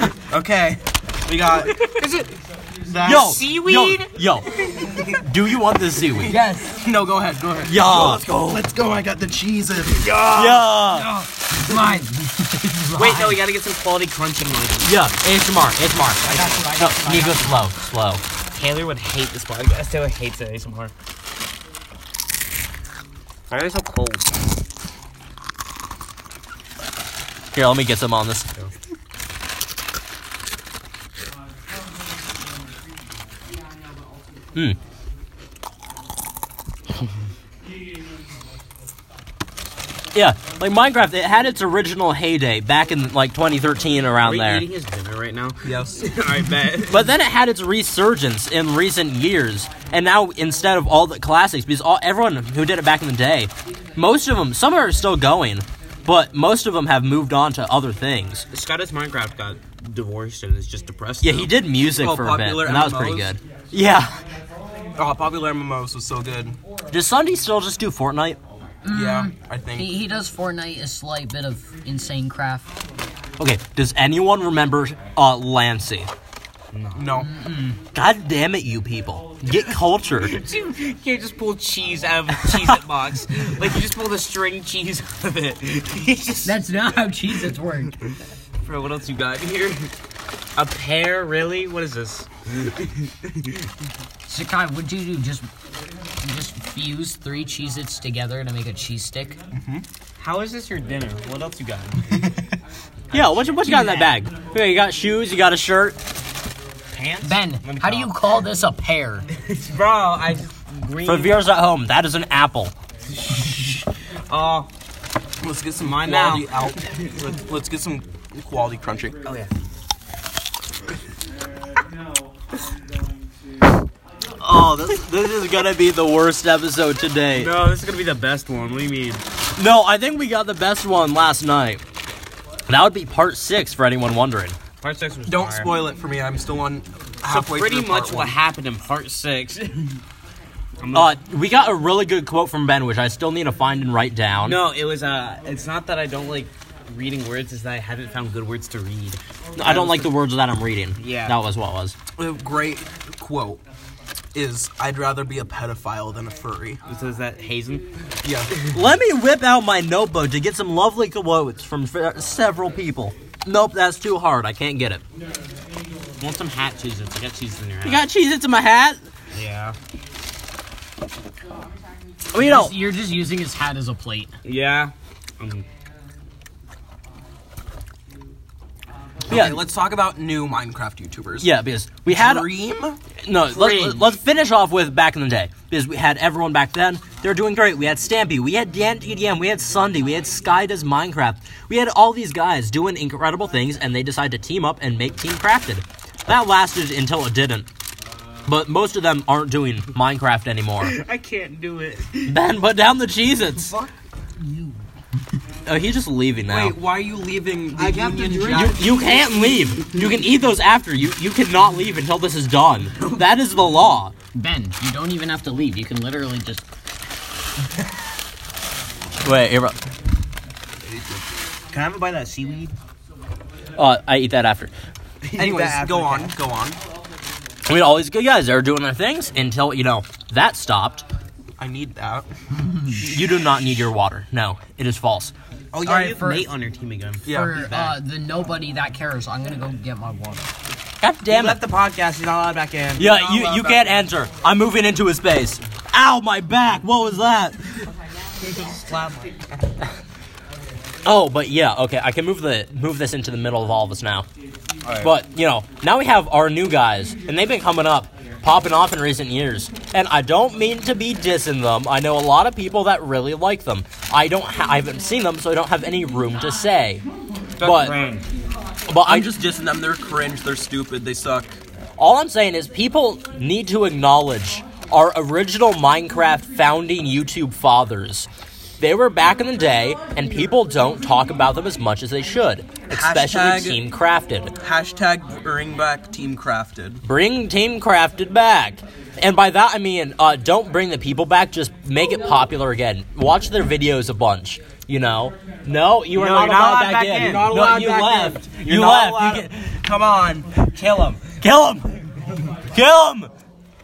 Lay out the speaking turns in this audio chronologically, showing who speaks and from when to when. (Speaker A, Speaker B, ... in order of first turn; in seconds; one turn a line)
Speaker A: 0.3-1.7
Speaker B: 1.5-2.3
Speaker A: 2.9-3.4
Speaker C: 3.0-4.5
Speaker B: 3.0-4.1
Speaker B: 4.8-5.2
Speaker C: 5.1-6.3
Speaker A: 6.2-10.6
Speaker B: 6.3-6.6
Speaker C: 7.7-8.2
Speaker B: 10.0-11.1
Speaker C: 10.3-11.1
Speaker D: 11.1-13.4
Speaker B: 12.9-14.9
Speaker C: 14.8-18.2
Speaker D: 16.2-17.7
Speaker B: 16.2-16.8
Speaker B: 18.5-20.9
Speaker B: 23.5-24.4
Speaker C: 27.5-28.5
Speaker C: 40.1-44.7
Speaker B: 44.2-47.1
Speaker A: 45.6-46.1
Speaker C: 46.9-58.5
Speaker B: 58.5-61.5
Speaker C: 61.2-64.2
Speaker A: 62.0-63.4
Speaker A: 65.0-66.6
Speaker C: 66.9-68.4
Speaker D: 68.8-72.8
Speaker A: 68.9-70.0
Speaker C: 73.4-76.1
Speaker B: 76.7-77.2
Speaker A: 76.9-77.3
Speaker C: 77.7-80.3
Speaker B: 80.2-86.6
Speaker D: 86.4-88.0
Speaker B: 88.6-89.9
Speaker B: 90.6-93.5
Speaker D: 94.3-95.5
Speaker D: 96.2-99.4
Speaker A: 99.5-99.9
Speaker B: 100.2-102.2
Speaker C: 103.1-106.0
Speaker B: 103.1-103.8
Speaker D: 103.6-104.2
Speaker B: 106.9-108.5
Speaker D: 107.2-109.3
Speaker B: 109.3-111.4
Speaker C: 111.0-112.8
Speaker B: 113.1-114.7
Speaker A: 115.4-119.2
Speaker B: 115.8-117.2
Speaker B: 119.2-119.6
Speaker C: 124.4-127.5
Speaker B: 127.3-129.2
Speaker C: 129.6-131.8
Speaker C: 132.7-134.6
Speaker B: 134.8-135.9
Speaker A: 135.3-138.4
Speaker B: 137.3-140.0
Speaker B: 140.8-141.1
Speaker C: 140.9-144.6
Speaker B: 144.4-149.9
Speaker C: 149.6-152.0
Speaker A: 149.6-150.1
Speaker B: 151.0-151.4
Speaker A: 152.2-153.6
Speaker A: 154.3-156.8
Speaker B: 156.9-157.9
Speaker A: 158.2-158.5
Speaker C: 158.7-165.0
Speaker B: 166.2-168.1
Speaker C: 167.8-169.0
Speaker B: 169.3-169.8
Speaker C: 172.3-172.8
Speaker D: 172.3-174.3
Speaker B: 174.4-175.7
Speaker A: 179.3-181.5
Speaker C: 179.3-179.6
Speaker C: 181.4-182.5
Speaker A: 182.1-183.0
Speaker C: 183.2-197.7
Speaker B: 183.5-184.1
Speaker C: 198.5-201.0
Speaker B: 200.8-202.4
Speaker C: 202.3-203.8
Speaker B: 203.6-203.9
Speaker D: 204.4-204.8
Speaker C: 205.7-206.8
Speaker A: 206.5-209.0
Speaker B: 207.8-208.5
Speaker D: 207.8-209.4
Speaker C: 208.5-214.1
Speaker B: 213.0-213.2
Speaker D: 214.3-216.7
Speaker C: 219.2-219.8
Speaker A: 220.8-221.3
Speaker B: 221.7-222.7
Speaker C: 223.8-224.7
Speaker B: 225.3-226.3
Speaker A: 225.4-226.8
Speaker C: 227.7-231.0
Speaker A: 231.6-232.3
Speaker A: 232.9-233.3
Speaker C: 233.0-235.3
Speaker B: 235.7-238.0
Speaker D: 235.8-236.5
Speaker A: 237.2-237.6
Speaker D: 237.3-240.5
Speaker C: 241.0-241.6
Speaker B: 241.3-243.1
Speaker C: 243.0-247.7
Speaker A: 243.0-243.9
Speaker B: 248.4-249.9
Speaker C: 251.1-254.3
Speaker B: 254.8-255.1
Speaker C: 255.0-267.0
Speaker B: 267.6-268.3
Speaker C: 267.6-268.0
Speaker C: 268.9-269.3
Speaker A: 269.1-271.5
Speaker C: 272.0-278.3
Speaker C: 278.8-284.5
Speaker A: 282.9-283.8
Speaker A: 284.6-287.0
Speaker C: 287.1-299.6
Speaker B: 296.1-301.3
Speaker C: 301.4-302.0
Speaker C: 302.6-303.3